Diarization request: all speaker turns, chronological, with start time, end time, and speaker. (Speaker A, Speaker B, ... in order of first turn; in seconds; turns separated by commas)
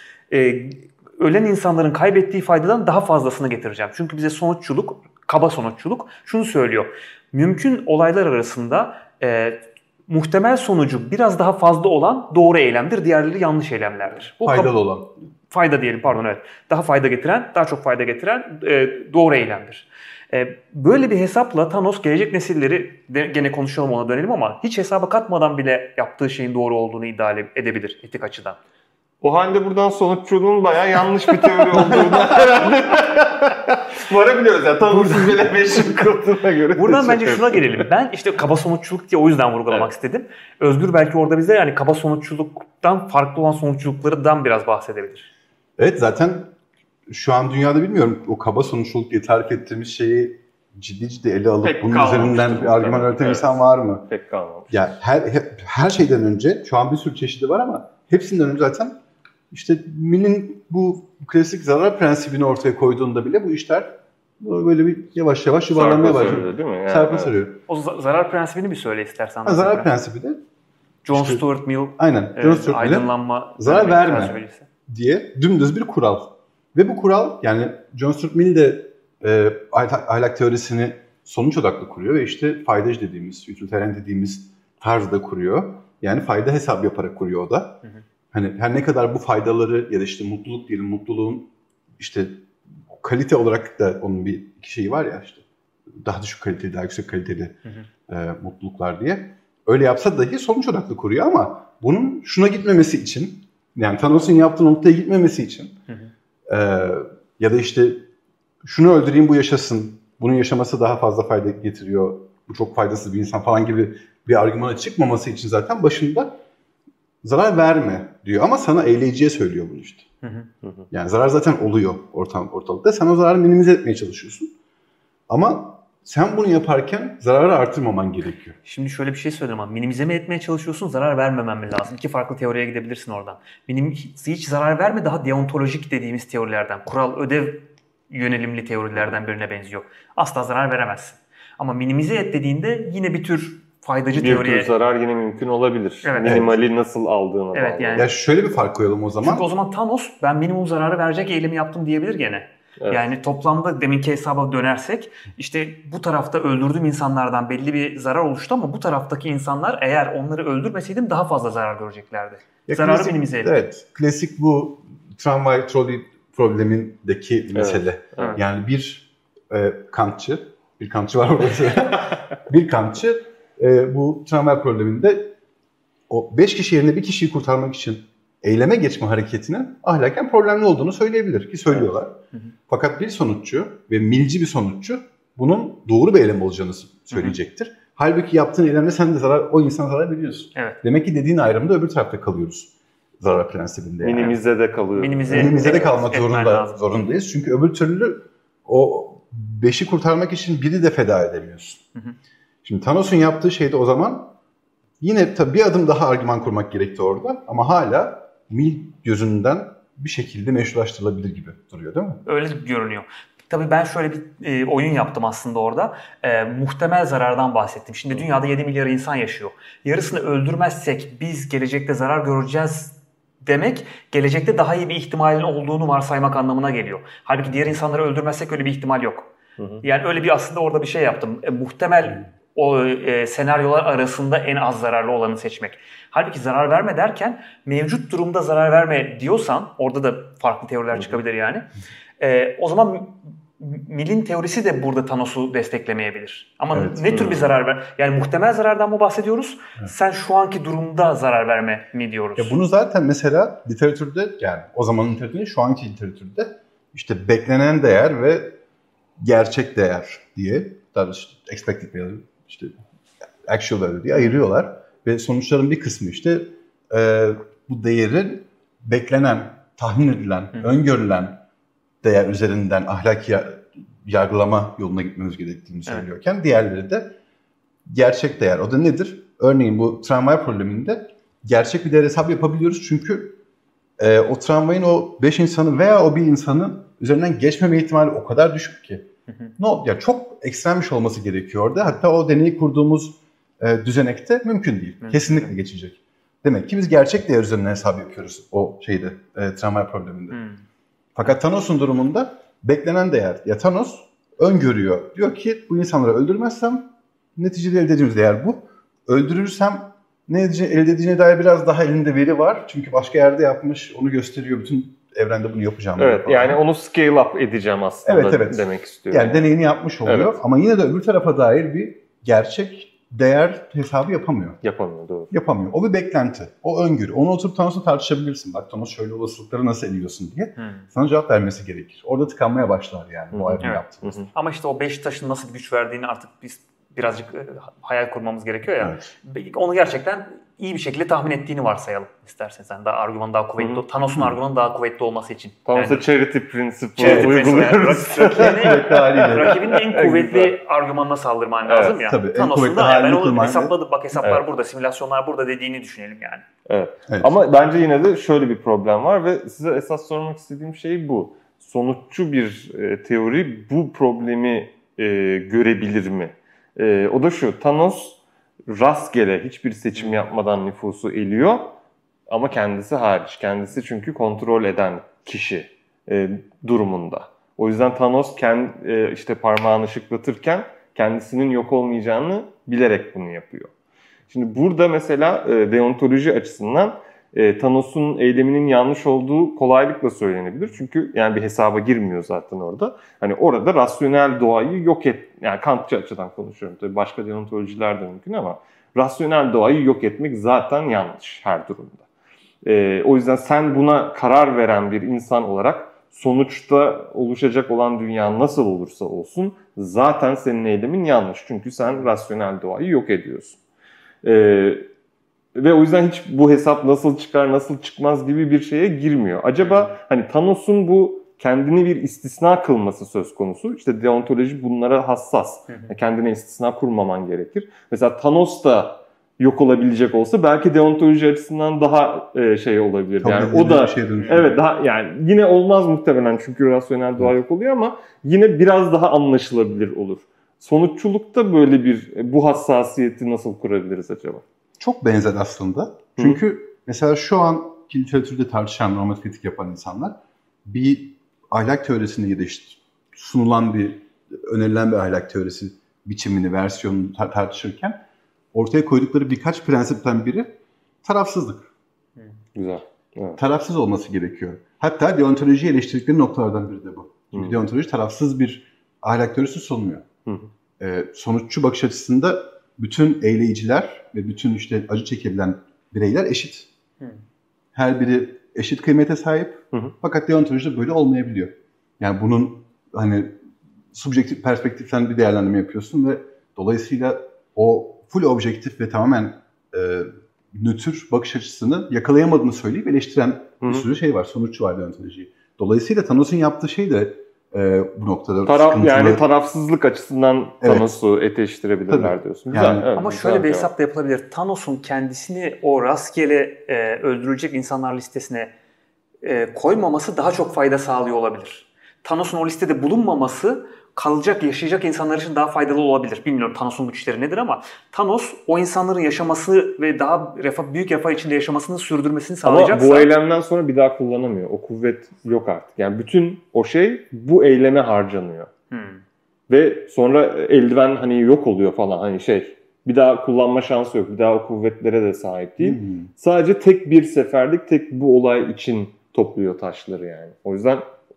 Speaker A: 0.3-14.7, Speaker B: 14.4-15.1, Speaker A: 15.5-28.6, Speaker C: 29.2-37.8, Speaker A: 36.8-45.3, Speaker B: 45.8-46.5, Speaker B: 47.1-54.1, Speaker C: 51.6-54.8, Speaker B: 54.7-59.0, Speaker B: 59.5-67.6, Speaker C: 65.7-67.4, Speaker A: 67.7-69.9, Speaker B: 69.4-70.4, Speaker A: 71.0-74.7, Speaker B: 71.1-71.4, Speaker B: 72.0-87.8, Speaker B: 88.3-95.4, Speaker B: 96.0-97.6, Speaker B: 98.1-105.8, Speaker B: 106.5-108.0, Speaker B: 108.6-116.4, Speaker B: 117.2-120.1, Speaker A: 120.2-120.5, Speaker B: 120.9-124.5, Speaker B: 125.3-128.6, Speaker A: 128.6-144.7, Speaker C: 144.1-148.1, Speaker A: 146.0-146.5, Speaker B: 146.2-146.5, Speaker A: 147.5-148.1, Speaker B: 147.9-149.5, Speaker A: 149.2-163.6, Speaker B: 162.7-175.3, Speaker C: 167.5-168.4, Speaker B: 176.1-194.4, Speaker A: 187.1-187.3, Speaker C: 194.0-195.8, Speaker A: 194.9-196.8, Speaker B: 195.3-201.8, Speaker B: 202.6-204.3, Speaker B: 205.0-212.2, Speaker A: 212.2-229.3, Speaker C: 229.6-229.8, Speaker A: 229.8-241.7, Speaker A: 242.2-252.5, Speaker B: 246.7-247.4, Speaker B: 252.4-258.5, Speaker B: 259.2-262.7, Speaker B: 263.4-271.4, Speaker B: 272.0-277.1, Speaker B: 277.9-283.4, Speaker B: 284.0-289.1, Speaker B: 289.6-300.4, Speaker A: 295.0-295.5, Speaker A: 300.3-300.6, Speaker B: 301.1-316.6, Speaker C: 316.0-319.5, Speaker B: 318.0-324.6, Speaker C: 320.0-320.4, Speaker C: 324.6-325.3, Speaker B: 325.3-334.2, Speaker A: 330.6-330.8, Speaker C: 333.3-334.3, Speaker A: 333.6-346.1, Speaker B: 338.8-339.1, Speaker C: 345.6-350.6, Speaker A: 347.0-356.4, Speaker B: 347.0-347.4, Speaker B: 348.3-349.6, Speaker C: 351.7-352.0, Speaker B: 352.0-353.7, Speaker C: 354.2-354.4, Speaker C: 356.6-383.7, Speaker B: 357.1-357.3, Speaker C: 384.3-402.0, Speaker C: 402.6-413.6, Speaker C: 414.2-414.9, Speaker C: 415.5-444.4, Speaker B: 433.2-434.6, Speaker A: 434.2-434.4, Speaker B: 444.8-458.0, Speaker C: 446.1-446.4, Speaker B: 458.5-461.7, Speaker C: 462.5-463.4, Speaker B: 463.4-470.1, Speaker B: 470.8-476.7, Speaker B: 477.7-483.4, Speaker B: 483.9-499.2, Speaker C: 493.6-493.9, Speaker C: 498.4-503.7, Speaker B: 500.6-500.9, Speaker B: 501.9-502.9, Speaker A: 502.9-508.5, Speaker A: 509.2-523.1, Speaker C: 522.4-528.5, Speaker A: 528.7-529.0, Speaker C: 529.5-540.9, Speaker B: 535.6-536.1